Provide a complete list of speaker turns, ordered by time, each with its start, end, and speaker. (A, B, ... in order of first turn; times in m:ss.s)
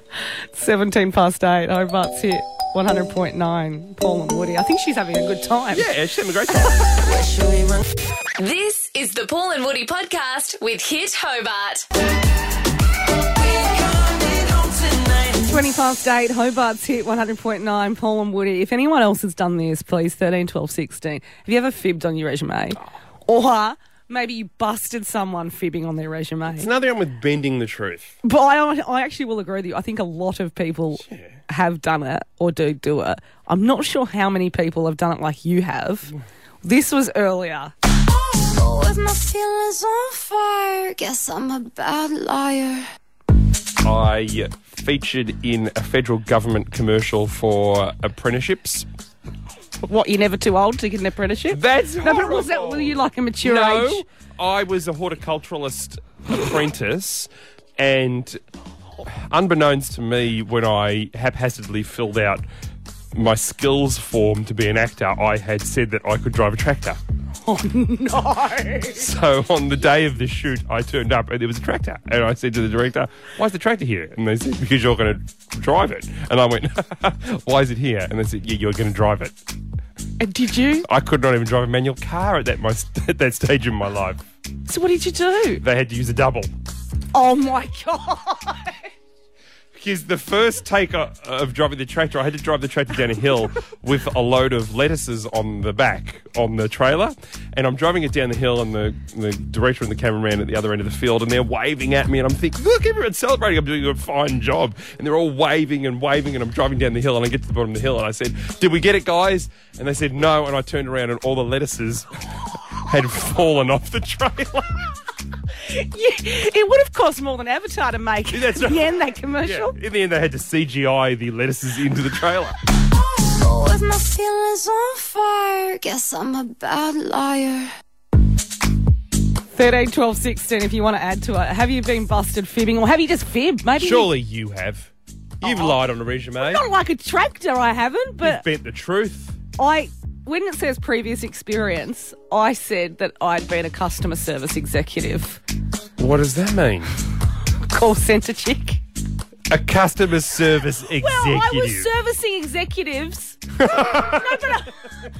0:00.5-0:05.9 A
0:05.7-0:07.1 B
0:08.4-0:11.8 C
0:15.4-0:26.7 A
0:26.5-0:28.1 B
0:28.2-0:37.7 A
0:31.0-0:31.3 B
0:38.2-0:42.8 D
0:43.8-0:48.9 B
0:49.8-0:54.0 A
0:51.5-0:58.4 B
0:59.0-1:02.4 B
1:03.1-1:07.0 B
1:07.4-1:09.1 A
1:08.9-1:19.4 B
1:20.2-1:20.9 A
1:20.8-1:24.2 B
1:24.7-1:25.6 A
1:25.6-1:26.5 B
1:27.1-1:28.8 A
1:29.7-1:52.1 B
1:52.8-1:54.9 B
1:55.6-1:59.8 A
1:58.3-2:02.6 B
2:03.1-2:07.7 D
2:09.5-2:14.1 A
2:13.8-2:16.6 B
2:15.4-2:15.8 A
2:16.4-2:18.4 A
2:18.2-2:19.4 B
2:19.6-2:25.4 A
2:26.0-2:26.9 B
2:27.7-2:28.8 A
2:29.5-2:31.9 B
2:31.0-2:34.8 A
2:33.6-2:34.4 B